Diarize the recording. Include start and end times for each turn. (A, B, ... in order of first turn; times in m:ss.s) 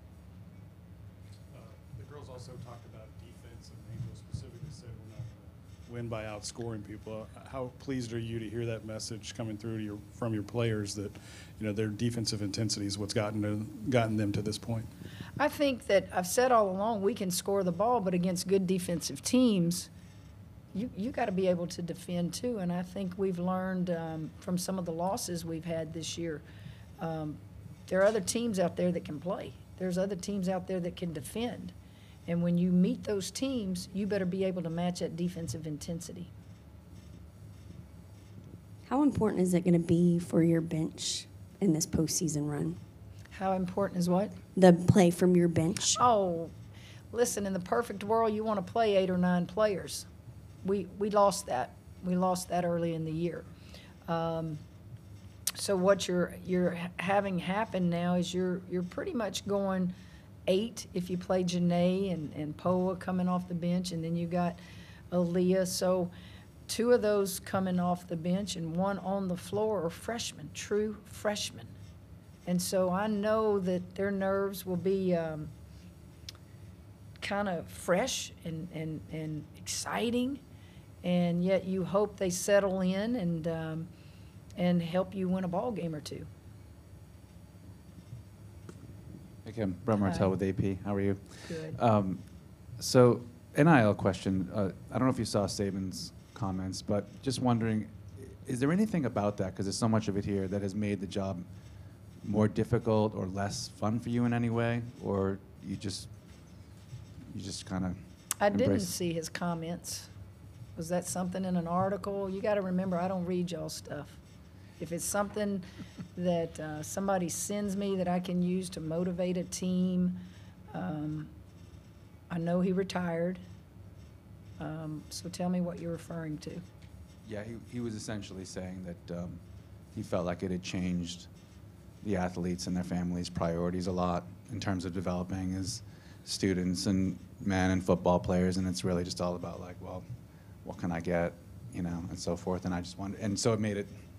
0:01.5-0:14.9 A
0:15.4-0:19.9 B
0:20.7-0:26.4 B
0:27.0-0:31.7 B
0:32.3-0:36.3 B
0:38.9-0:42.8 C
0:43.3-0:44.4 B
0:44.6-0:46.0 C
0:45.9-0:46.5 B
0:47.1-0:50.1 B
0:50.6-0:53.5 B
0:54.1-0:54.6 B
0:55.6-0:59.9 B
1:00.5-1:04.6 B
1:05.1-1:06.1 B
1:06.7-1:11.7 B
1:12.5-1:15.5 B
1:17.2-1:20.4 B
1:21.0-1:23.9 B
1:24.6-1:26.3 B
1:29.4-1:32.2 D
1:30.0-1:30.3 B
1:31.4-1:31.8 B
1:32.8-1:41.5 D
1:42.2-1:46.1 D
1:47.3-1:48.0 D
1:48.4-1:50.1 B
1:48.5-1:48.9 D
1:50.8-1:54.2 B
1:54.8-2:00.2 B
2:00.7-2:01.3 B
2:02.3-2:03.4 B
2:04.6-2:06.6 B
2:07.2-2:09.4 D
2:09.9-2:11.3 D
2:12.0-2:20.0 D
2:20.6-2:24.0 D